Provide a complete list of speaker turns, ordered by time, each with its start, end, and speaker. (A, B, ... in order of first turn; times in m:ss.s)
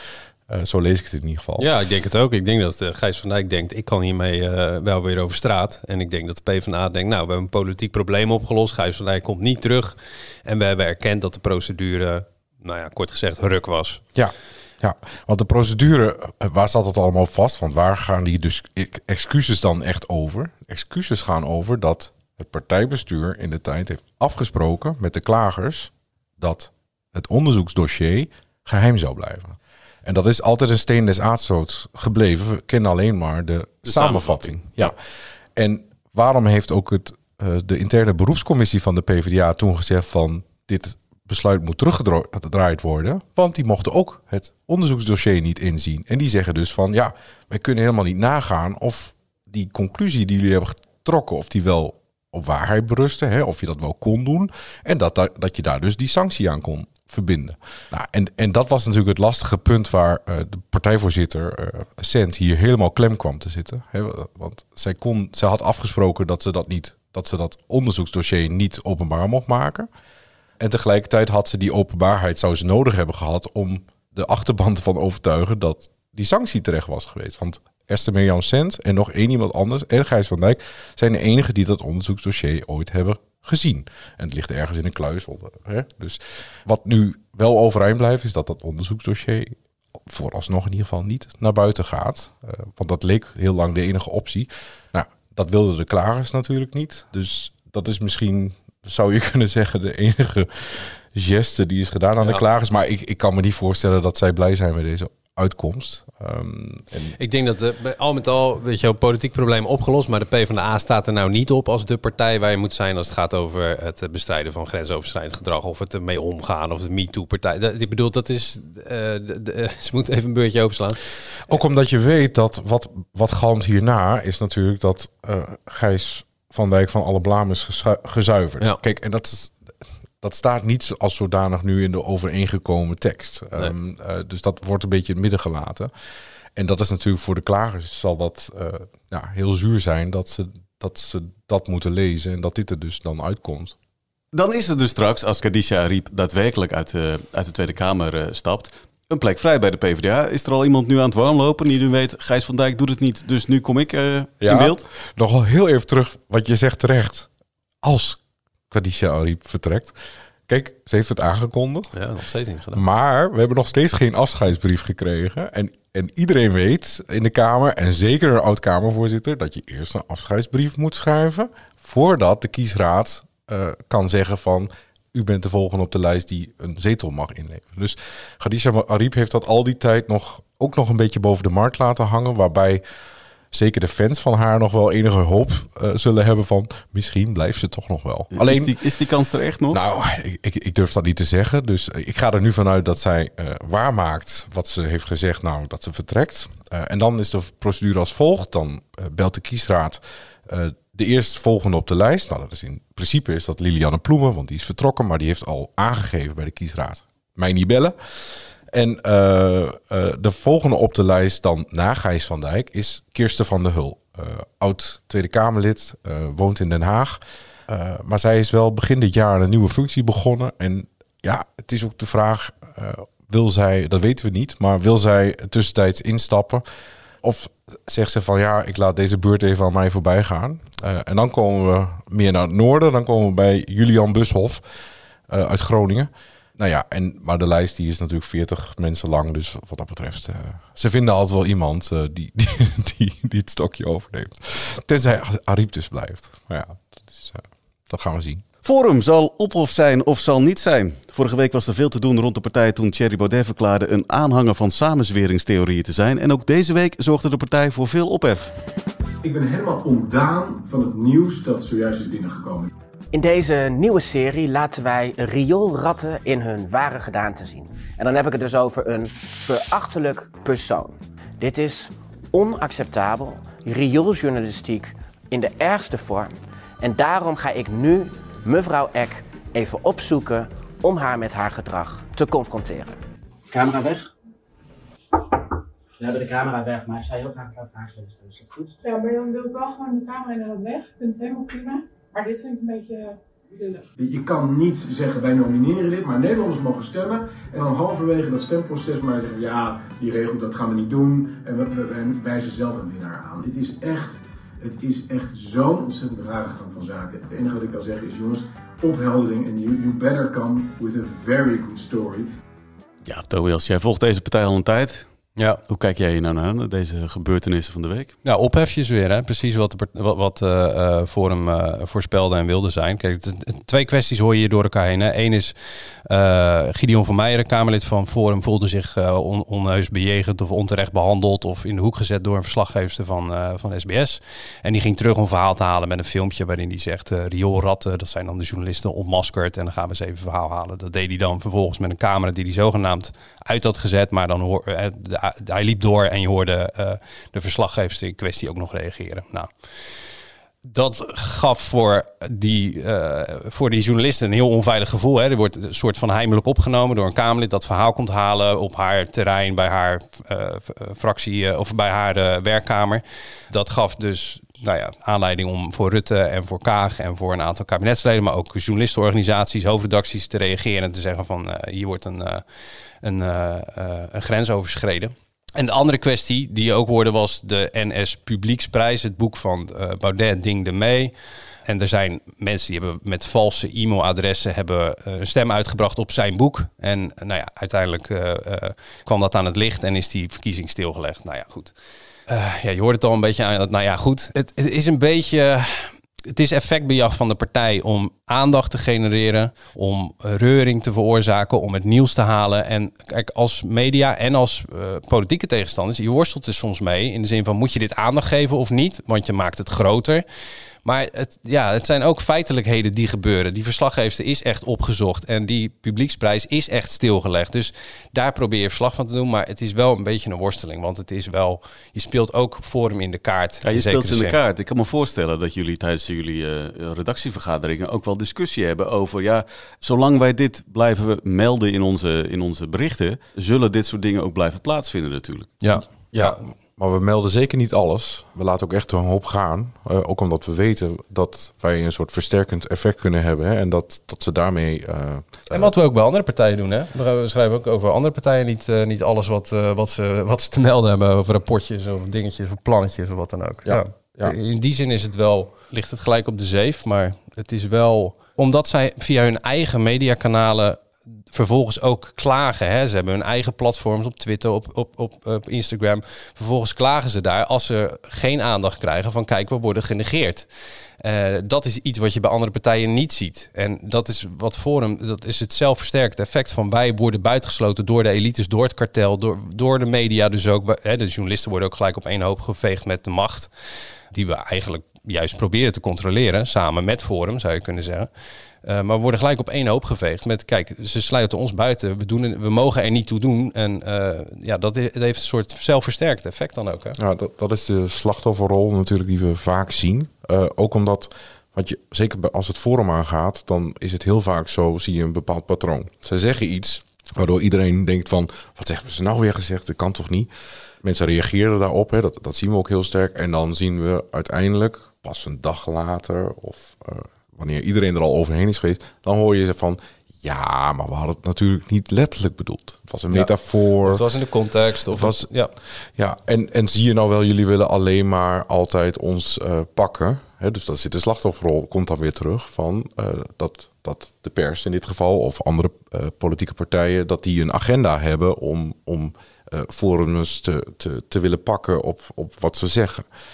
0:00.5-0:01.7 A
0:01.6-0:14.0 B
0:14.1-0:35.0 A
0:33.8-0:34.9 C
0:35.6-1:09.9 A
1:10.6-1:47.2 A
1:47.2-2:01.6 B
2:01.5-2:09.6 A
2:10.2-2:15.9 A
2:16.5-2:23.8 A
2:24.3-2:34.8 C
2:34.4-2:37.3 A
2:37.8-2:40.0 A
2:40.5-2:41.9 A
2:41.9-2:42.8 B
2:42.7-3:02.8 A
3:03.5-3:08.8 A
3:08.3-3:09.8 C
3:09.7-3:46.6 A
3:47.2-3:54.6 A
3:55.3-4:08.4 A
4:08.6-4:18.5 C
4:19.2-4:22.7 D
4:23.1-4:43.0 E
4:43.5-4:44.1 E
4:46.0-4:48.7 E
4:48.8-4:53.8 F
4:54.0-5:12.3 D
5:13.0-5:15.1 C
5:15.7-5:18.2 C
5:18.2-5:25.5 B
5:26.0-5:49.5 B
5:50.6-6:12.4 B
6:13.0-6:21.1 B
6:21.6-6:31.7 B
6:32.3-6:50.2 B
6:50.8-7:04.4 B
7:03.6-7:15.6 C
7:15.6-7:16.4 B
7:16.1-7:25.7 A
7:25.5-7:50.5 B
7:33.6-7:34.3 A
7:51.0-8:03.5 B
8:04.1-8:08.1 B
8:08.6-8:17.0 B
8:17.0-8:30.3 A
8:30.8-8:44.0 A
8:43.8-8:45.5 B
8:44.9-9:03.1 A